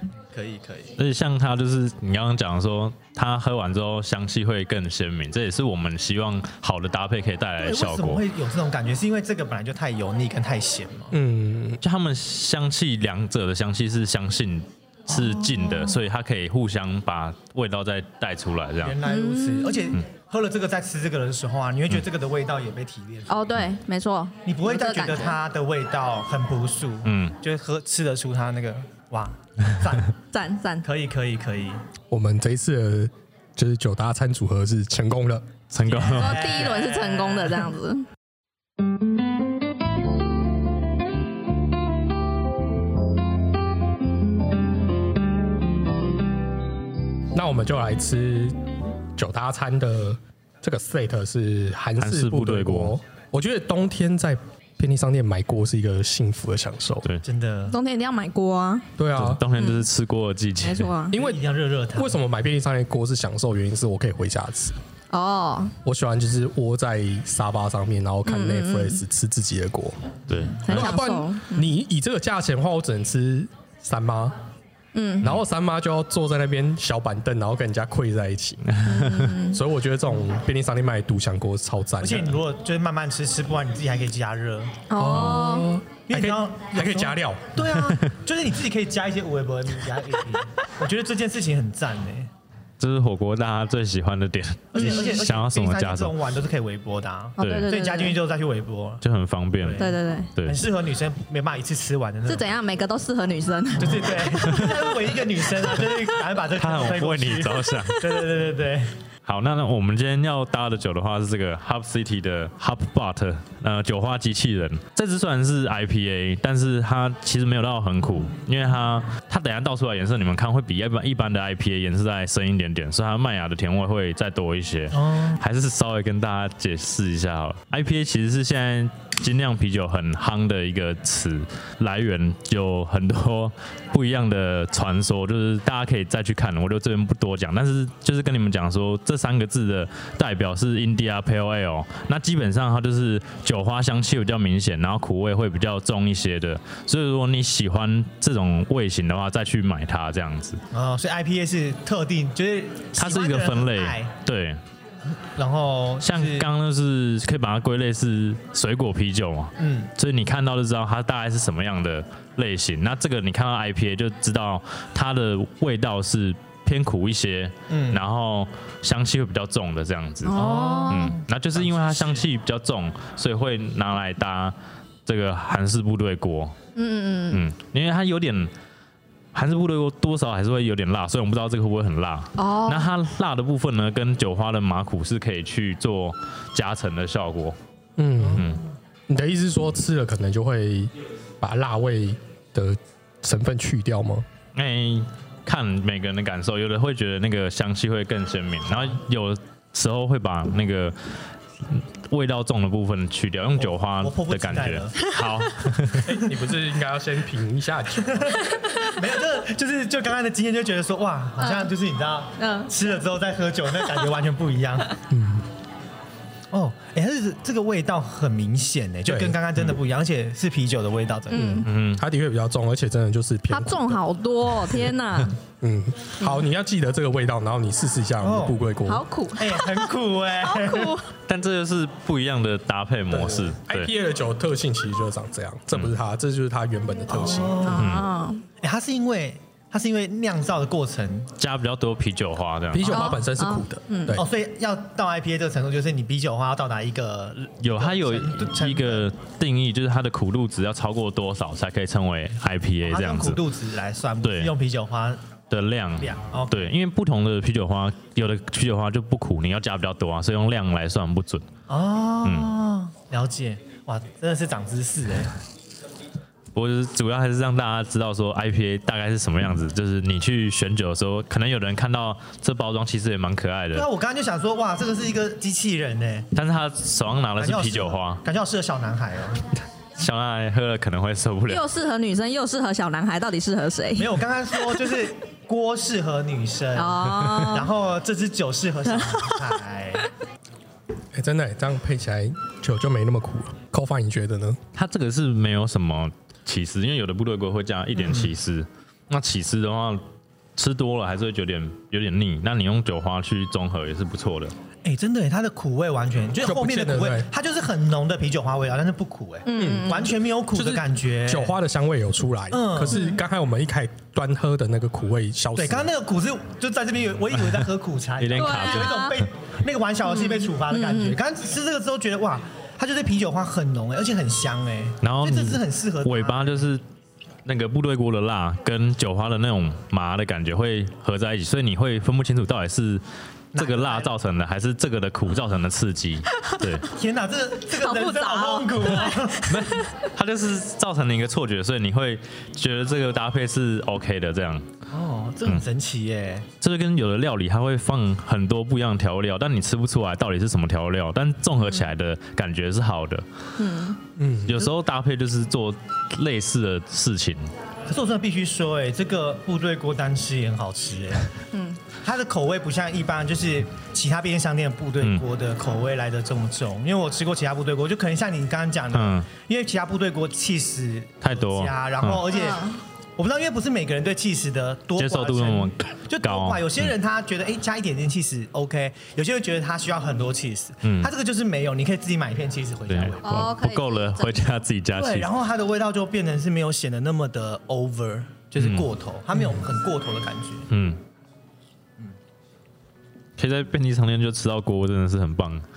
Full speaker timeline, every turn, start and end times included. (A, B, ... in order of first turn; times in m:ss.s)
0:00.3-0:01.0 A
0:01.0-0:08.2 B
0:07.6-0:11.2 A
0:11.1-0:11.8 C
0:11.8-0:19.0 B
0:15.1-0:15.9 A
0:18.8-0:23.4 A
0:19.0-0:20.0 D
0:23.3-0:25.4 D
0:24.4-0:30.1 A
0:27.0-0:27.4 B
0:30.3-0:30.8 D
0:30.8-0:31.8 A
0:32.1-0:35.5 C
0:35.7-0:36.6 B
0:35.9-0:37.7 A
0:36.0-0:38.0 D
0:47.3-0:48.6 C
0:49.2-0:57.1 C
0:52.0-0:53.0 B
0:57.2-0:57.8 A
0:57.7-0:58.9 D
0:59.0-0:59.4 C
0:59.1-1:00.9 B
0:59.6-0:59.8 D
1:00.6-1:01.2 D
1:01.1-1:01.4 C
1:01.1-1:02.2 A
1:02.0-1:04.8 C
1:05.1-1:05.8 D
1:05.8-1:10.1 C
1:08.3-1:09.0 D
1:10.3-1:11.0 B
1:10.6-1:11.7 D
1:10.7-1:14.4 C
1:14.9-1:15.4 D
1:15.2-1:18.8 C
1:18.7-1:19.4 B
1:18.8-1:19.6 D
1:19.4-1:22.4 C
1:22.0-1:24.8 A
1:24.9-1:25.7 D
1:25.0-1:27.7 C
1:25.0-1:25.5 B
1:26.1-1:32.3 A
1:32.8-1:36.1 B
1:34.7-1:39.0 A
1:34.8-1:35.2 D
1:37.4-1:38.2 D
1:37.4-1:37.8 B
1:39.0-1:40.6 B
1:39.6-1:42.6 A
1:39.8-1:40.3 D
1:42.3-1:44.8 D
1:43.8-1:48.9 A
1:44.4-1:44.7 B
1:46.6-1:48.2 B
1:49.3-2:30.6 B
2:04.9-2:05.4 A
2:30.7-2:34.2 A
2:33.0-2:34.6 B
2:35.2-2:36.5 A
2:36.0-2:54.6 B
2:39.6-2:39.9 A
2:47.7-2:48.0 A
2:50.2-2:51.2 D
2:50.3-2:52.2 A
2:55.1-2:56.6 B
2:56.8-2:57.4 D
2:57.3-2:58.5 B
2:59.3-3:07.6 B
3:02.4-3:02.9 D
3:08.0-3:08.5 C
3:08.4-3:08.6 B
3:09.1-3:14.3 C
3:14.6-3:21.0 B
3:21.7-3:26.1 B
3:23.6-3:25.1 A
3:26.0-3:28.5 C
3:28.1-3:34.9 A
3:31.4-3:31.7 D
3:32.4-3:32.7 D
3:35.1-3:35.5 C
3:36.5-3:41.7 A
3:39.1-3:39.4 C
3:41.3-3:41.7 D
3:41.4-3:44.0 C
3:41.6-3:42.0 B
3:43.5-3:45.4 D
3:45.6-3:49.1 C
3:48.2-3:48.6 A
3:48.8-3:49.9 D
3:49.4-3:51.0 A
3:50.4-3:51.1 D
3:51.3-3:53.9 B
3:53.4-3:57.7 C
3:57.1-3:58.0 A
3:57.6-3:58.4 D
3:57.7-3:58.1 B
3:58.6-4:01.3 A
4:01.4-4:03.1 B
4:02.7-4:04.2 C
4:02.8-4:04.2 D
4:04.1-4:09.1 A
4:07.6-4:13.4 B
4:12.8-4:15.2 A
4:14.2-4:14.5 B
4:15.5-4:21.5 B
4:16.0-4:16.7 A
4:21.7-4:25.4 A
4:22.2-4:22.5 B
4:26.6-4:33.9 B
4:33.7-4:36.3 A
4:36.4-4:38.2 B
4:37.4-4:39.5 A
4:40.0-4:41.6 B
4:41.5-4:44.9 D
4:44.0-4:50.1 A
4:46.8-4:47.7 D
4:49.0-4:49.5 D
4:51.1-4:54.6 C
4:54.7-5:00.0 B
4:58.0-4:58.3 A
5:00.6-5:04.5 B
5:04.8-5:11.6 A
5:06.4-5:07.3 C
5:09.4-5:10.2 D
5:09.6-5:15.9 C
5:12.5-5:13.1 A
5:12.9-5:13.2 D
5:15.6-5:26.7 A
5:18.2-5:19.2 B
5:18.4-5:19.2 D
5:20.0-5:21.2 D
5:25.0-5:26.8 B
5:27.5-5:33.0 B
5:33.5-5:34.1 A
5:33.6-5:36.9 B
5:36.3-5:36.8 D
5:36.9-5:39.5 A
5:37.7-5:40.0 D
5:39.5-5:44.7 B
5:44.9-5:46.5 A
5:46.6-5:53.2 B
5:53.6-5:54.0 D
5:54.2-5:54.6 C
5:54.5-5:57.5 B
5:57.9-6:01.3 A
6:01.5-6:01.8 D
6:02.0-6:23.5 A
6:08.9-6:09.3 B
6:11.2-6:12.2 B
6:12.3-6:12.8 D
6:15.0-6:16.9 B
6:20.8-6:21.1 B
6:22.9-6:25.3 B
6:23.2-6:24.6 D
6:24.9-6:30.7 A
6:28.6-6:28.9 B
6:30.7-6:31.0 B
6:33.4-6:35.6 B